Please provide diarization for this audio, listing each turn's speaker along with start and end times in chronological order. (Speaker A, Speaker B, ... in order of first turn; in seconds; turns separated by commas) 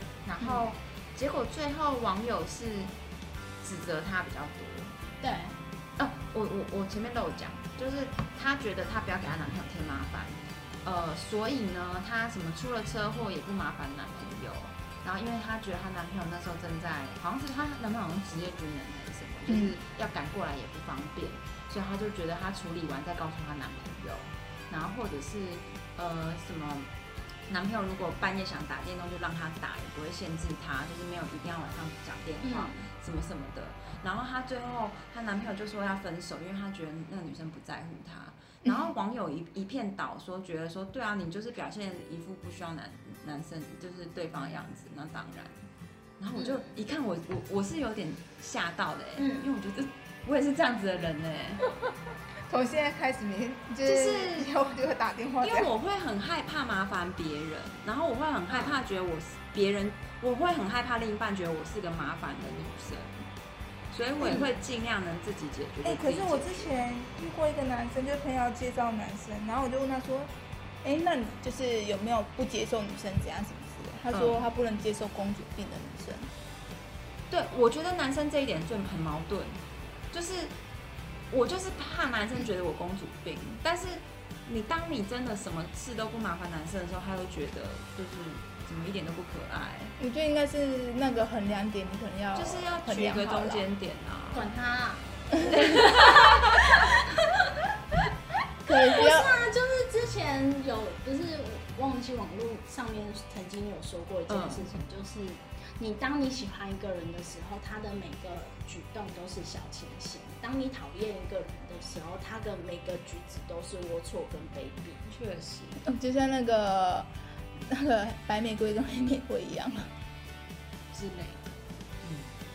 Speaker A: 0.2-2.9, Speaker A: 3.6-5.0, Speaker B: 5.2-5.6, Speaker A: 6.0-26.9, Speaker C: 19.5-19.8, Speaker A: 27.5-45.7, Speaker B: 32.4-32.9, Speaker A: 46.2-51.7, Speaker B: 46.3-46.7, Speaker B: 49.2-49.5, Speaker C: 52.5-55.7, Speaker A: 53.9-54.5, Speaker A: 55.4-63.3, Speaker B: 58.5-58.8, Speaker A: 63.9-66.8, Speaker B: 64.2-64.5, Speaker C: 65.8-70.3, Speaker C: 70.8-76.3, Speaker A: 74.1-74.4, Speaker A: 77.3-80.5, Speaker A: 81.3-90.0, Speaker C: 90.0-93.7, Speaker A: 92.3-94.5, Speaker B: 94.3-97.0, Speaker A: 95.5-96.9, Speaker C: 98.7-99.5, Speaker B: 98.7-115.1, Speaker A: 104.3-104.7, Speaker A: 115.1-115.8, Speaker C: 115.8-117.1, Speaker C: 117.6-119.9, Speaker B: 120.9-121.6, Speaker A: 122.0-122.3